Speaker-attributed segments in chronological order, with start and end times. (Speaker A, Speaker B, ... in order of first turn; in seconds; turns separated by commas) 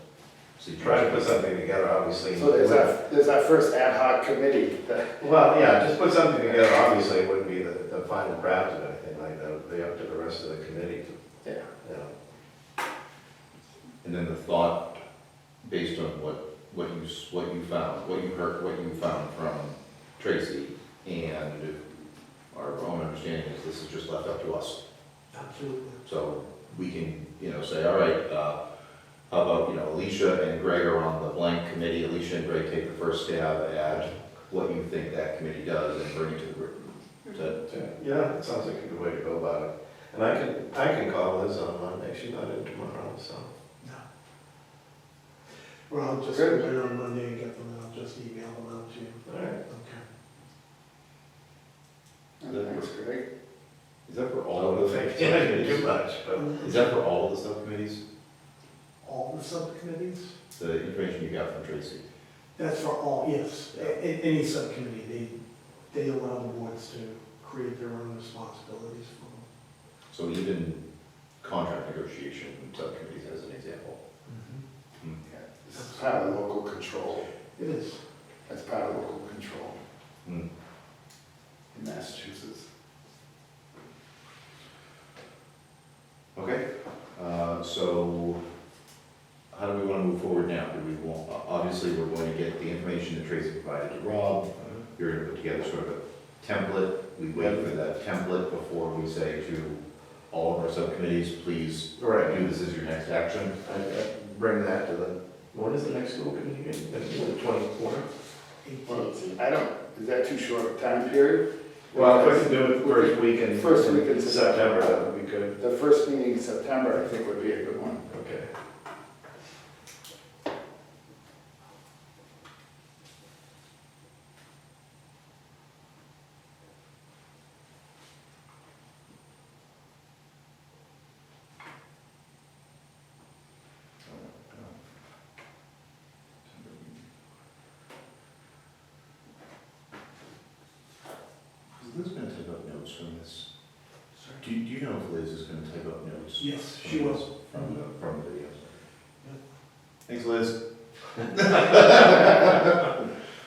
Speaker A: 0.6-1.3, Speaker B: 0.8-2.9, Speaker C: 2.3-5.2, Speaker B: 5.2-11.1, Speaker B: 11.8-12.1, Speaker A: 14.0-15.0, Speaker A: 15.6-21.8, Speaker A: 22.5-24.8, Speaker D: 25.3-26.0, Speaker A: 26.1-28.6, Speaker A: 29.3-37.6, Speaker B: 33.9-34.1, Speaker B: 37.7-43.5, Speaker D: 45.9-50.0, Speaker C: 46.3-46.7, Speaker B: 49.3-49.6, Speaker C: 52.4-53.2, Speaker A: 52.5-52.9, Speaker A: 54.1-55.9, Speaker B: 54.5-56.6, Speaker D: 56.4-57.0, Speaker A: 56.6-58.0, Speaker D: 59.0-60.3, Speaker A: 60.6-62.0, Speaker D: 62.6-65.4, Speaker D: 65.9-69.5, Speaker A: 70.1-70.8, Speaker A: 71.4-74.0, Speaker D: 74.3-74.6, Speaker C: 75.3-77.3, Speaker D: 75.8-76.3, Speaker D: 77.5-78.0, Speaker C: 78.5-79.8, Speaker C: 81.7-82.7, Speaker A: 86.3-88.4, Speaker A: 89.5-103.6, Speaker B: 97.3-97.7, Speaker B: 102.0-102.4, Speaker B: 103.6-108.1, Speaker D: 108.6-109.3, Speaker C: 108.9-115.0, Speaker B: 111.9-115.6, Speaker C: 115.6-118.1, Speaker B: 118.1-118.5, Speaker A: 134.0-134.8, Speaker A: 136.4-137.1, Speaker A: 141.8-143.5, Speaker D: 144.2-144.4, Speaker A: 144.4-148.8, Speaker D: 146.4-147.8, Speaker A: 150.1-150.6, Speaker A: 151.1-152.7